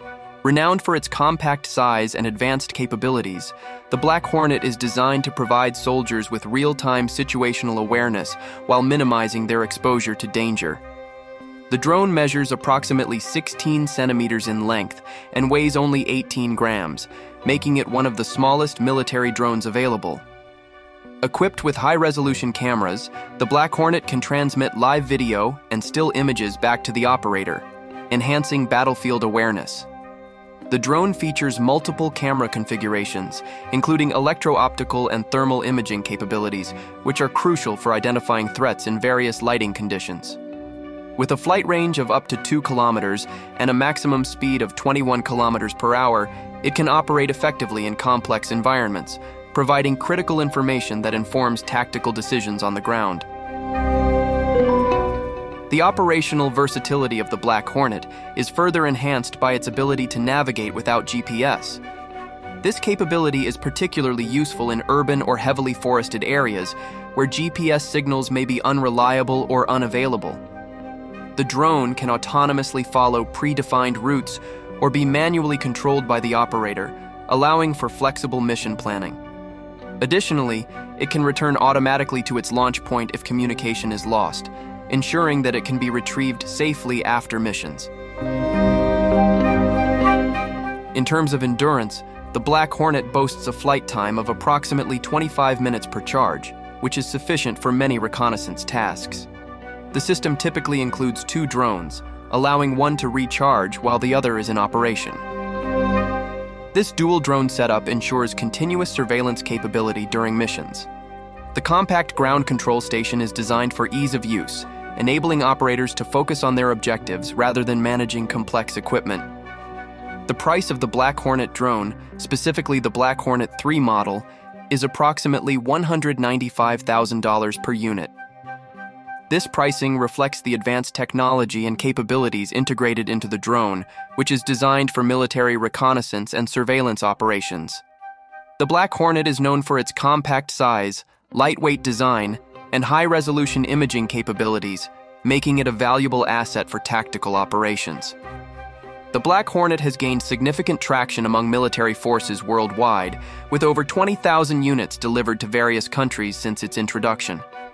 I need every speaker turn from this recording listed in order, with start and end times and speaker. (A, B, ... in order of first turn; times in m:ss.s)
0:00.4-0:10.8 A
0:11.7-0:20.2 A
0:21.2-0:29.9 A
0:30.7-0:40.4 A
0:41.2-0:53.2 A
0:55.7-1:01.8 A
1:02.6-1:10.4 A
1:11.4-1:19.2 A
1:20.0-1:27.9 A
1:30.9-1:39.3 A
1:39.9-1:45.2 A
1:46.7-1:50.9 A
1:51.5-1:59.3 A
2:00.3-2:08.1 A
2:09.3-2:17.8 A
2:18.6-2:28.2 A
2:29.1-2:37.4 A